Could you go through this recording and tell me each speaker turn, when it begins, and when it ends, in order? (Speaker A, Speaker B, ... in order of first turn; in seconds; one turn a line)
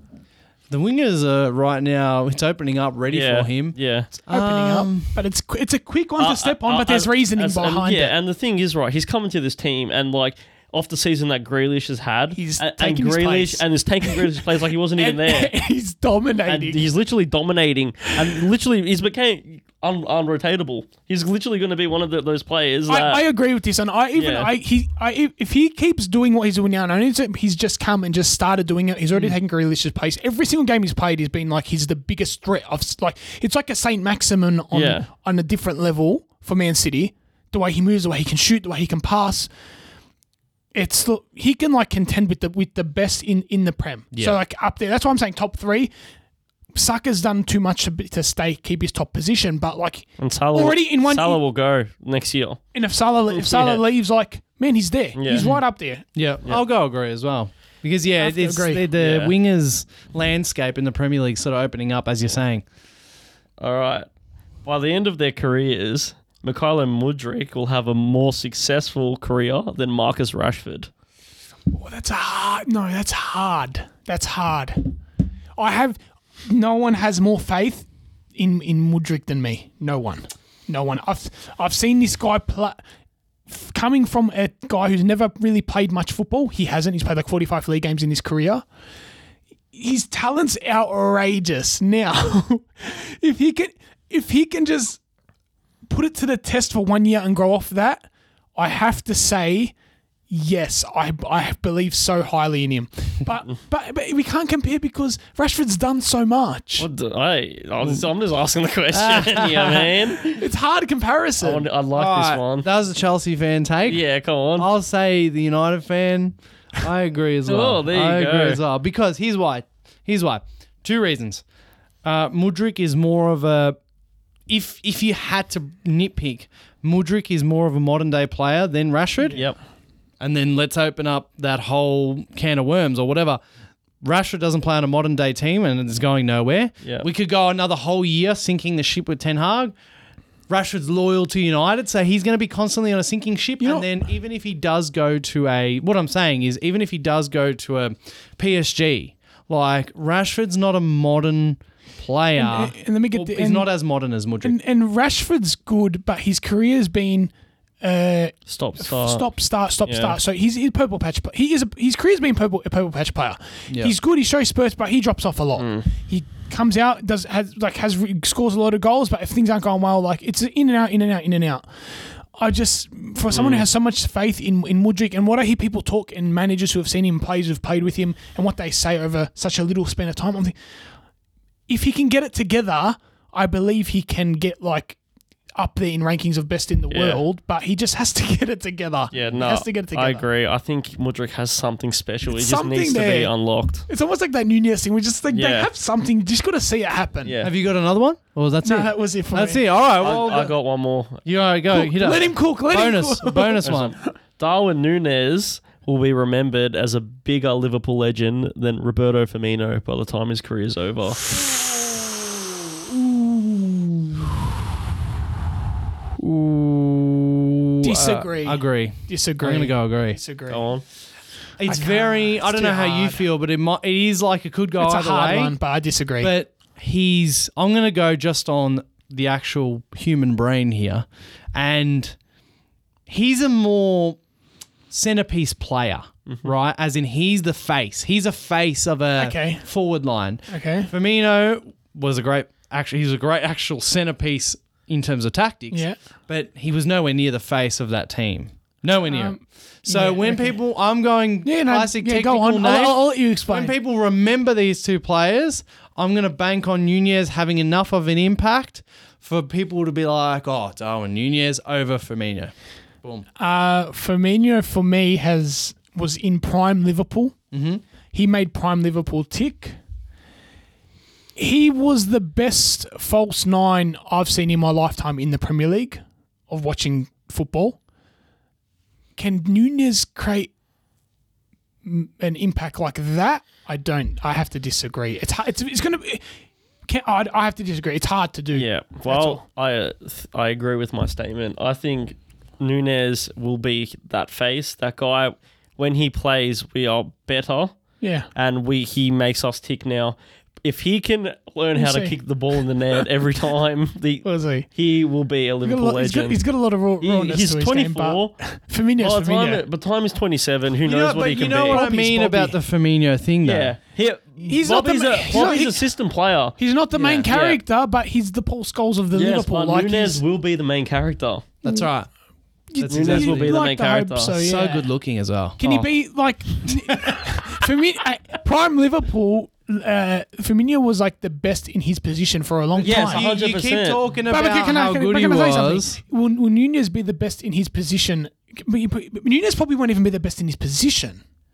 Speaker A: 0.7-3.8
Speaker B: 3.1-4.1
Speaker C: 4.2-8.1
Speaker A: 4.3-5.2
Speaker B: 6.2-15.5
Speaker C: 12.3-14.4
Speaker C: 14.9-16.8
Speaker B: 16.4-23.3
Speaker C: 22.9-39.5
Speaker B: 24.1-24.5
Speaker B: 34.7-35.1
Speaker C: 40.7-45.9
Speaker C: 46.7-51.4
Speaker B: 50.2-52.6
Speaker C: 52.7-56.0
Speaker B: 53.3-53.8
Speaker B: 55.1-55.5
Speaker A: 56.1-62.6
Speaker C: 58.2-58.9
Speaker B: 59.0-59.3
Speaker B: 63.6-64.0
Speaker B: 64.6-70.9
Speaker C: 71.7-74.9
Speaker C: 75.6-82.8
Speaker C: 83.5-88.6
Speaker C: 89.7-95.0
Speaker C: 95.9-99.7
Speaker C: 100.3-106.9
Speaker B: 106.8-110.4
Speaker A: 108.9-109.9
Speaker C: 110.3-111.7
Speaker B: 111.4-112.7
Speaker A: 111.9-114.0
Speaker B: 113.8-114.7
Speaker A: 114.5-121.4
Speaker B: 117.5-118.6
Speaker A: 122.0-123.8
Speaker A: 124.5-129.4
Speaker B: 129.3-129.6
Speaker A: 130.2-133.4
Speaker A: 134.0-139.7
Speaker B: 136.8-137.1
Speaker A: 140.5-154.5
Speaker C: 143.6-143.9
Speaker C: 152.3-153.7
Speaker C: 154.4-180.6
Speaker B: 158.5-159.2
Speaker B: 159.8-160.2
Speaker A: 163.7-163.9
Speaker B: 165.6-165.9
Speaker B: 173.3-173.7
Speaker C: 181.7-185.0
Speaker C: 185.6-190.3
Speaker B: 186.9-187.2
Speaker B: 189.1-193.8
Speaker C: 192.3-193.3
Speaker C: 193.9-197.4
Speaker B: 195.3-195.7
Speaker B: 197.2-197.5
Speaker A: 197.4-200.6
Speaker C: 198.6-199.6
Speaker B: 200.0-201.2
Speaker A: 201.2-203.9
Speaker C: 201.7-203.8
Speaker B: 203.6-211.2
Speaker A: 216.2-220.2
Speaker C: 217.8-220.6
Speaker B: 220.5-220.8
Speaker A: 221.6-225.6
Speaker C: 221.7-223.2
Speaker C: 224.8-226.3
Speaker A: 226.2-232.2
Speaker A: 233.1-234.2
Speaker A: 234.9-263.2
Speaker C: 239.2-239.7
Speaker C: 240.5-240.9
Speaker C: 245.7-246.0
Speaker C: 249.1-250.6
Speaker C: 251.4-253.7
Speaker C: 263.4-267.4
Speaker A: 267.5-267.8
Speaker C: 268.1-269.8
Speaker C: 271.4-277.8
Speaker C: 279.1-280.5
Speaker C: 281.8-286.2
Speaker C: 286.9-289.4
Speaker B: 288.5-297.8
Speaker C: 298.0-298.3
Speaker B: 298.3-306.4
Speaker C: 301.7-302.2
Speaker C: 304.2-304.7
Speaker C: 305.6-309.6
Speaker B: 307.0-308.3
Speaker B: 309.0-311.8
Speaker A: 310.8-313.7
Speaker C: 311.2-312.6
Speaker B: 313.4-317.6
Speaker C: 314.4-315.9
Speaker C: 316.6-320.2
Speaker B: 319.1-321.4
Speaker A: 321.6-322.1
Speaker C: 322.7-324.9
Speaker A: 322.8-323.6
Speaker B: 322.9-324.3
Speaker A: 324.3-325.9
Speaker C: 325.6-333.3
Speaker A: 326.6-327.2
Speaker A: 332.8-336.0
Speaker B: 332.8-334.1
Speaker C: 334.3-341.2